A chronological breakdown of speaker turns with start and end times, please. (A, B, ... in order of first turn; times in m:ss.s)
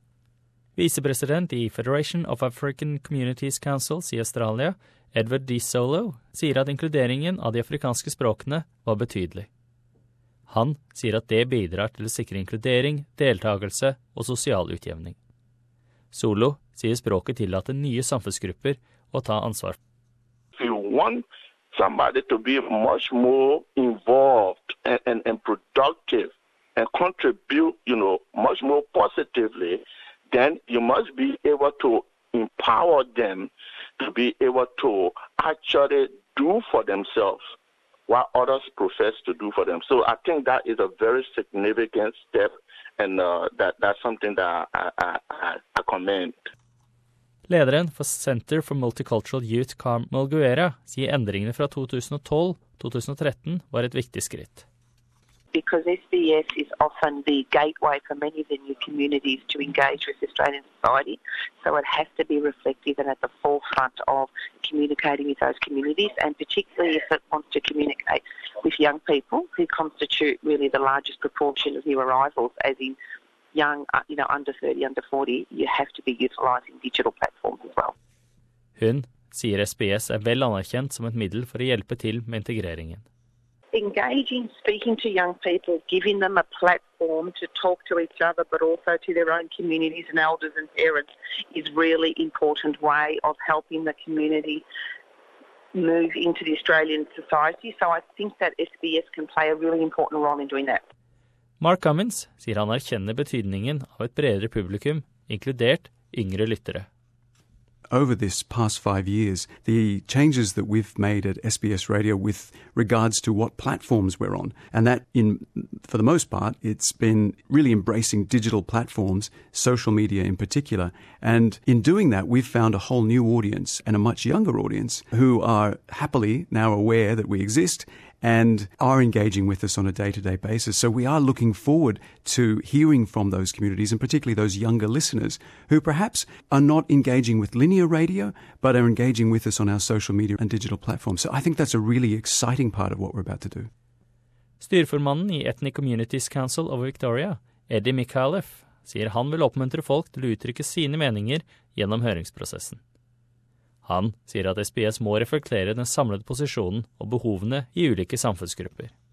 0:00.8-0:09.5 A
0:10.5-0:15.2 A
0:16.1-0:19.8 A
0:20.6-0:37.5 B
0:38.1-0:46.5 B
0:47.5-0:54.6 A
0:55.5-1:13.0 C
1:13.5-1:17.9 C
1:18.8-1:23.0 A
1:23.7-1:34.6 C
1:35.7-1:40.8 C
1:41.6-1:46.9 A
1:47.9-2:23.7 D
2:24.6-2:32.8 A
2:33.8-2:38.9 A